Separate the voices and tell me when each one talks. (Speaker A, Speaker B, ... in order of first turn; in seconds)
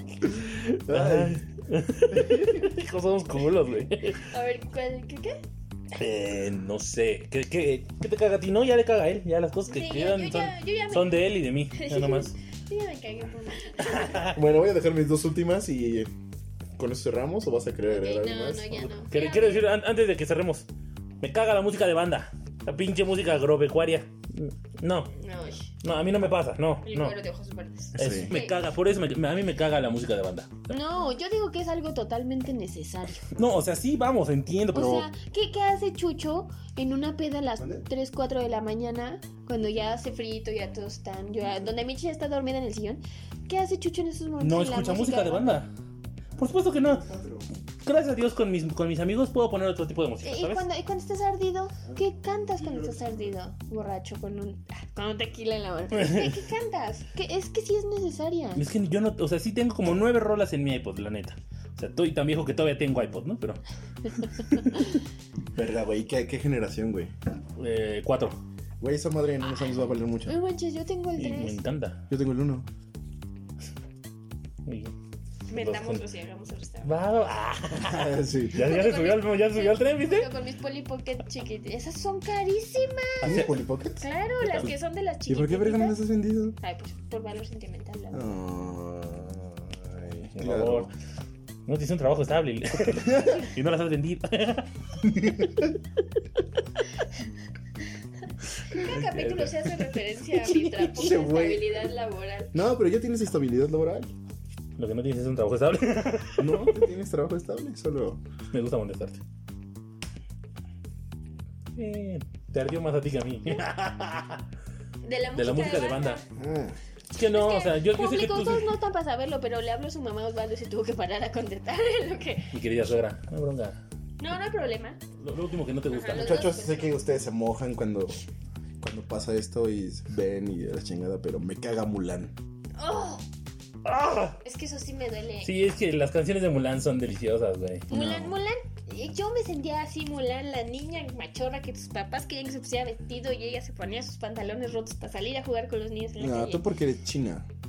Speaker A: 0.2-1.4, 2.1-2.7, 14.2-16.1, 16.8-18.9, 27.9-28.3, 37.6-37.8, 46.8-47.5, 52.6-53.3, 65.5-67.1, 68.8-70.4, 72.1-72.7, 77.8-78.7, 83.2-84.0, 85.3-86.6, 88.1-90.9, 93.1-93.4, 95.0-95.7, 100.9-101.8, 102.5-104.1, 106.4-108.2, 116.3-116.8, 126.1-128.2, 128.8-132.3, 146.2-147.5
Speaker B: 0.2-4.2, 5.9-12.3, 13.9-14.3, 19.0-20.7, 21.2-25.1, 25.8-27.1, 28.0-30.7, 33.3-35.1, 44.4-45.7, 46.4-47.0, 47.8-50.6, 55.9-56.4, 58.5-64.7, 67.6-68.4, 71.2-72.0, 74.6-74.9, 75.5-76.0, 76.8-80.3, 83.2-83.6, 84.4-84.7, 90.3-90.9, 91.7-94.7, 98.7-99.9, 100.5-100.9, 104.8-106.7, 108.5-109.2, 111.8-114.4, 115.3-116.2, 117.1-118.7, 122.5-123.8, 125.2-126.6, 133.8-134.4, 135.4-138.4
Speaker C: 4.2-5.4, 9.7-14.4, 17.9-19.7, 25.1-25.7, 26.8-28.6, 30.7-33.3, 34.7-45.6, 50.2-58.6, 70.2-71.6, 75.5-76.9, 78.6-83.3, 84.0-86.0, 86.6-88.3, 98.7-102.5, 115.0-116.2, 117.2-122.5, 124.2-125.0, 125.9-126.9, 132.8-133.2, 134.4-135.5, 137.9-146.6